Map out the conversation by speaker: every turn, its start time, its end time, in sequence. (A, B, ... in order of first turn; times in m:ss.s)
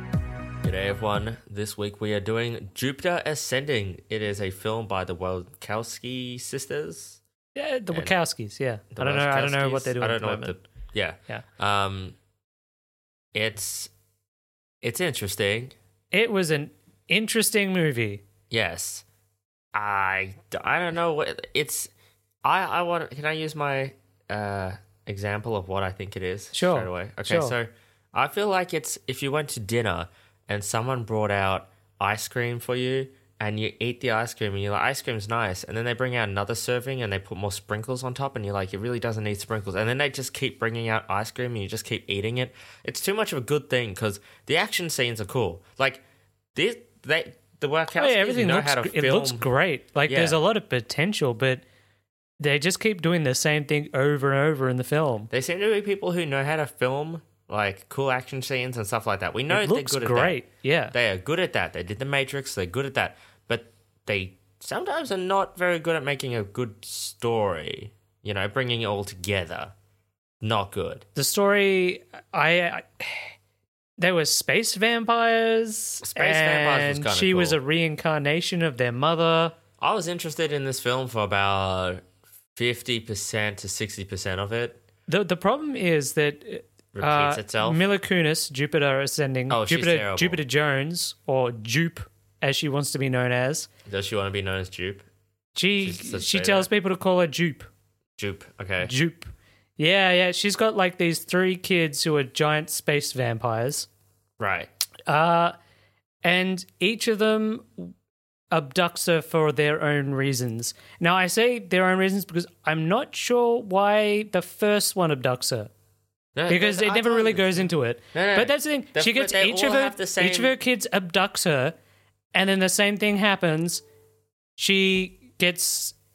0:00.6-0:07.2 A
0:07.6-0:10.6 B
0:08.9-0:12.2 A
0:13.3-0:13.9 A
0:14.8-0:15.8 A
0:16.1-0:18.2 B
0:18.5-0:19.0 A
0:19.7-0:21.9 A
0:22.4-0:46.0 A
0:26.5-0:27.6 B
0:46.6-0:49.5 A
0:48.0-0:51.6 B
0:50.1-0:50.4 A
0:52.4-0:55.3 B
0:55.3-1:00.4 A
0:59.5-1:01.0 B
1:00.9-1:09.7 A
1:10.4-1:11.0 A
1:11.2-1:13.3 B
1:14.0-1:19.5 B
1:16.0-1:17.6 A
1:19.8-1:24.8 A
1:25.1-1:33.7 B
1:26.9-1:27.8 A
1:29.5-1:30.4 A
1:33.9-1:35.0 A
1:35.6-1:37.7 B
1:35.8-1:36.7 A
1:38.2-1:38.9 A
1:38.8-1:43.9 B
1:44.4-1:44.7 A
1:45.1-1:45.6 B
1:46.2-1:47.9 B
1:48.5-1:55.7 B
1:56.4-2:00.6 A
1:56.5-2:01.8 B
2:02.4-2:03.8 B
2:04.6-2:06.0 B